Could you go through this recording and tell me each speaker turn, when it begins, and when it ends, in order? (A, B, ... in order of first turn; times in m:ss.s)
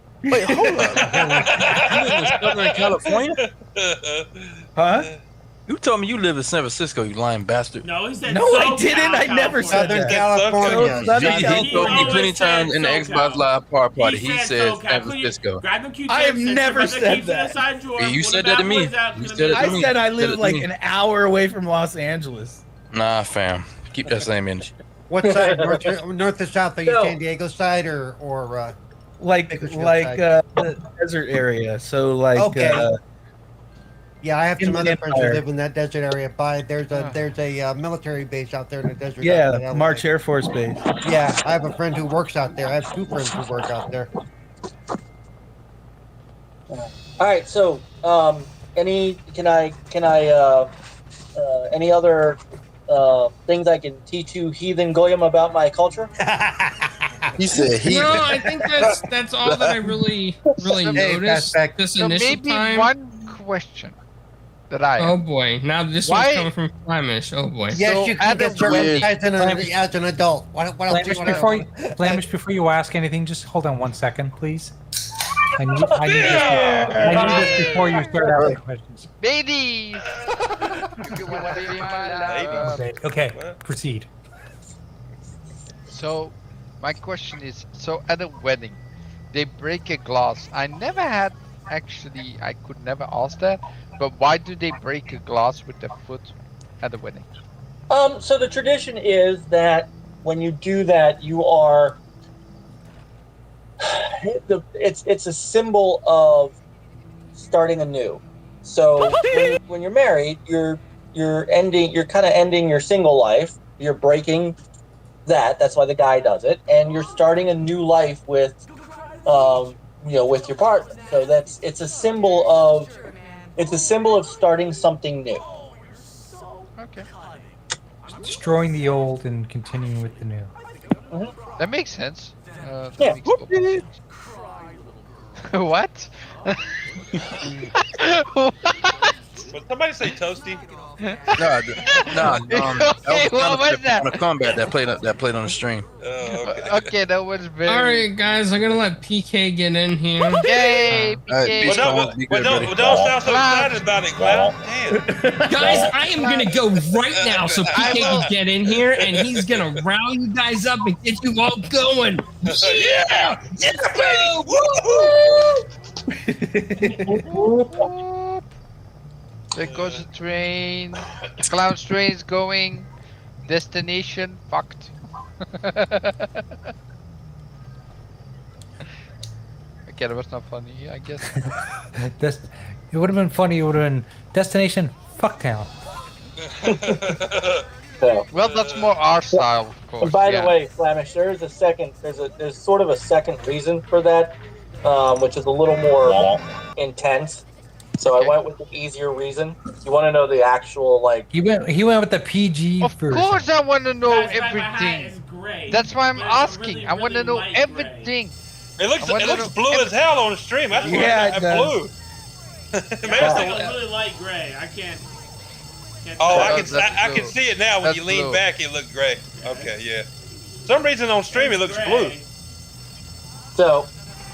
0:00.2-0:00.8 A
0:00.3-0:03.4 B
0:00.8-0:05.2 C
0:04.8-0:05.1 A
0:05.7-0:07.8 B
0:07.8-0:10.0 D
0:08.2-0:12.3 A
0:09.7-0:12.0 E
0:10.0-0:11.1 C
0:11.1-0:15.6 B
0:11.2-0:13.4 D
0:14.0-0:19.9 D
0:16.1-0:17.6 A
0:18.0-0:20.7 B
0:19.5-0:22.6 A
0:22.9-0:24.7 B
0:25.1-0:28.8 E
0:25.2-0:25.9 F
0:26.8-0:27.2 F
0:29.2-0:33.0 A
0:29.5-0:30.2 E
0:32.3-0:32.9 E
0:34.2-0:40.0 E
0:34.6-0:35.4 A
0:36.9-0:37.2 G
0:39.2-0:40.8 A
0:41.0-0:44.1 E
0:46.7-0:50.7 F
0:51.4-0:56.1 F
0:56.2-0:57.3 E
0:57.4-0:59.8 B
0:57.9-1:02.9 H
1:00.6-1:01.2 G
1:00.9-1:01.9 E
1:02.0-1:04.0 G
1:04.7-1:05.2 G
1:05.0-1:07.8 H
1:06.0-1:06.5 G
1:07.7-1:12.2 E
1:07.7-1:09.2 G
1:08.6-1:09.0 B
1:10.9-1:14.7 I
1:15.6-1:19.1 I
1:16.0-1:18.0 C
1:16.3-1:17.7 A
1:17.1-1:17.8 F
1:18.3-1:18.6 B
1:19.2-1:22.9 G
1:21.4-1:23.6 C
1:22.4-1:24.1 I
1:25.9-1:28.8 G
1:29.3-1:37.3 G
1:37.9-1:42.0 F
1:43.8-1:46.6 F
1:47.3-1:54.6 F
1:55.2-1:58.6 F
1:59.2-2:02.9 F
2:03.6-2:05.4 F
2:06.8-2:07.1 G
2:08.2-2:10.5 I
2:11.6-2:13.9 G
2:15.5-2:16.6 G
2:17.7-2:19.4 G
2:19.5-2:20.6 C
2:21.0-2:24.5 G
2:21.4-2:25.8 B
2:26.0-2:26.9 C
2:26.3-2:28.1 G
2:27.7-2:31.2 H
2:30.4-2:32.1 G
2:31.3-2:33.0 B
2:31.6-2:35.0 C
2:33.0-2:34.0 G
2:34.2-2:35.9 A
2:35.5-2:45.5 H
2:35.6-2:35.9 C
2:37.0-2:39.8 C
2:37.7-2:38.3 G
2:42.4-2:45.5 C
2:46.1-2:47.2 A
2:47.2-2:47.8 F
2:47.3-2:48.4 G
2:49.5-2:52.9 G
2:49.6-2:50.0 C
2:53.4-2:54.9 G
2:55.5-2:56.4 G
2:59.8-3:01.4 G
3:02.0-3:05.7 I
3:06.5-3:07.6 C
3:08.0-3:08.3 F
3:08.3-3:10.6 G
3:08.4-3:08.9 C
3:10.0-3:17.4 F
3:18.0-3:21.3 F
3:18.1-3:18.4 G
3:21.3-3:23.5 I
3:22.8-3:25.1 G
3:24.0-3:28.1 D
3:25.7-3:28.3 G
3:28.8-3:31.9 C
3:29.0-3:29.9 G
3:30.7-3:31.4 D
3:30.8-3:31.8 A
3:32.7-3:33.8 C
3:33.0-3:35.0 D
3:33.2-3:33.5 F
3:36.0-3:37.0 D
3:36.2-3:40.0 C
3:36.4-3:36.6 F
3:36.4-3:38.4 G
3:39.4-3:39.7 D
3:40.6-3:42.2 C
3:41.3-3:42.3 D
3:43.5-3:43.9 F